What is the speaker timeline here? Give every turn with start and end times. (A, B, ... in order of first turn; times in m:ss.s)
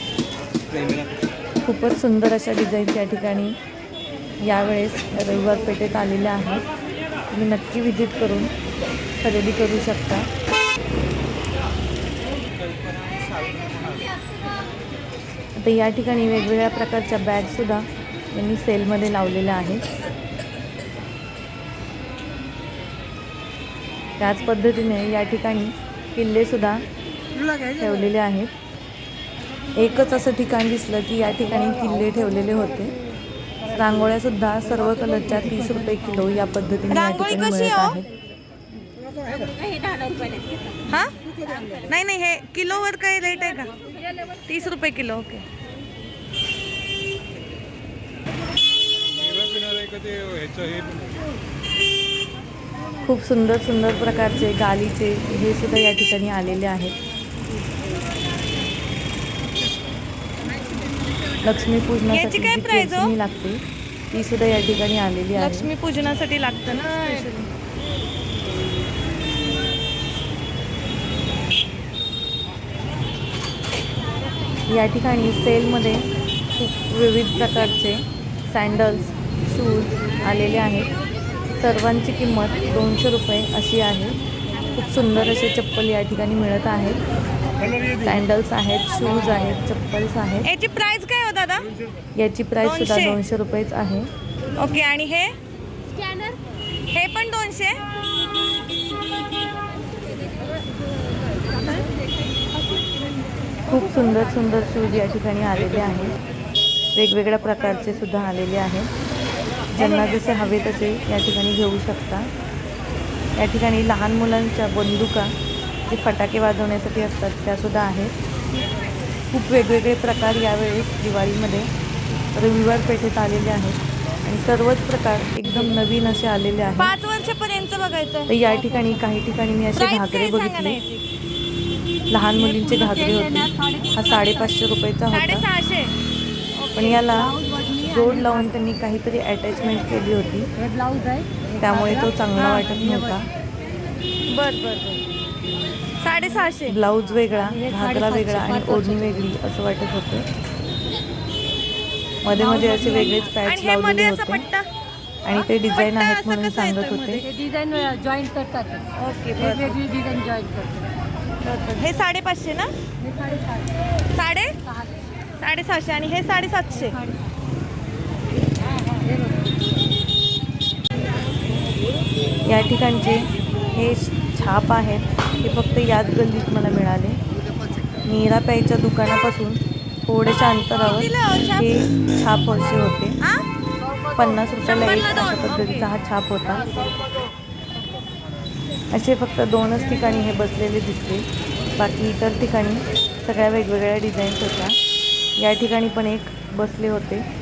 0:01.6-0:03.6 A
0:04.4-0:06.7 A
0:07.3-0:08.5 A
0:09.2-0:10.3 A
0:15.6-0:19.8 A
0:24.2-0:26.8 A
0:27.8-0:28.5 A
0:29.8-0:32.9 A
0:33.7-0:38.1 A
0:36.9-0:38.0 B
0:39.7-0:40.4 C
0:40.9-0:41.1 B
0:41.8-0:43.7 B
0:44.5-0:45.4 B
0:53.0-0:57.0 A
1:01.4-1:05.7 A
1:02.1-1:03.1 B
1:05.4-1:07.5 B
1:14.7-1:20.9 A
1:21.6-1:24.2 A
1:24.7-1:27.0 A
1:28.0-1:30.5 A
1:30.4-1:31.7 B
1:32.2-1:34.1 A
1:32.6-1:33.2 B
1:34.6-1:35.4 B
1:36.9-1:37.8 B
1:43.7-1:46.1 A
1:47.0-1:48.9 A
1:49.7-1:52.3 A
1:53.4-1:55.3 A
1:55.9-1:58.1 A
1:59.3-2:01.7 A
2:02.4-2:06.9 A
2:06.8-2:08.3 B
2:08.3-2:10.8 A
2:09.7-2:11.0 B
2:12.1-2:15.4 A
2:12.7-2:14.0 C
2:15.1-2:16.0 B
2:16.6-2:17.1 B
2:16.8-2:20.5 A
2:17.3-2:18.1 C
2:20.6-2:21.9 C
2:21.6-2:23.3 A
2:22.4-2:22.7 B
2:24.3-2:25.0 B
2:26.0-2:26.8 B
2:26.7-2:30.3 A
2:27.4-2:29.0 C
2:32.2-2:34.4 A
2:32.5-2:33.2 C
2:33.4-2:34.7 B
2:35.2-2:37.2 A
2:35.3-2:37.2 B
2:37.3-2:38.8 C
2:39.0-2:39.8 B
2:39.5-2:40.8 C
2:41.4-2:42.7 B
2:43.2-2:43.6 C
2:44.1-2:44.5 B
2:45.4-2:47.0 B
2:52.5-2:53.2 A
2:53.8-2:57.2 A
2:58.1-3:03.2 A
3:00.7-3:01.7 B
3:03.2-3:03.5 B
3:04.2-3:06.7 A
3:04.4-3:05.9 B
3:08.9-3:11.2 A
3:11.8-3:14.7 A
3:15.4-3:17.2 A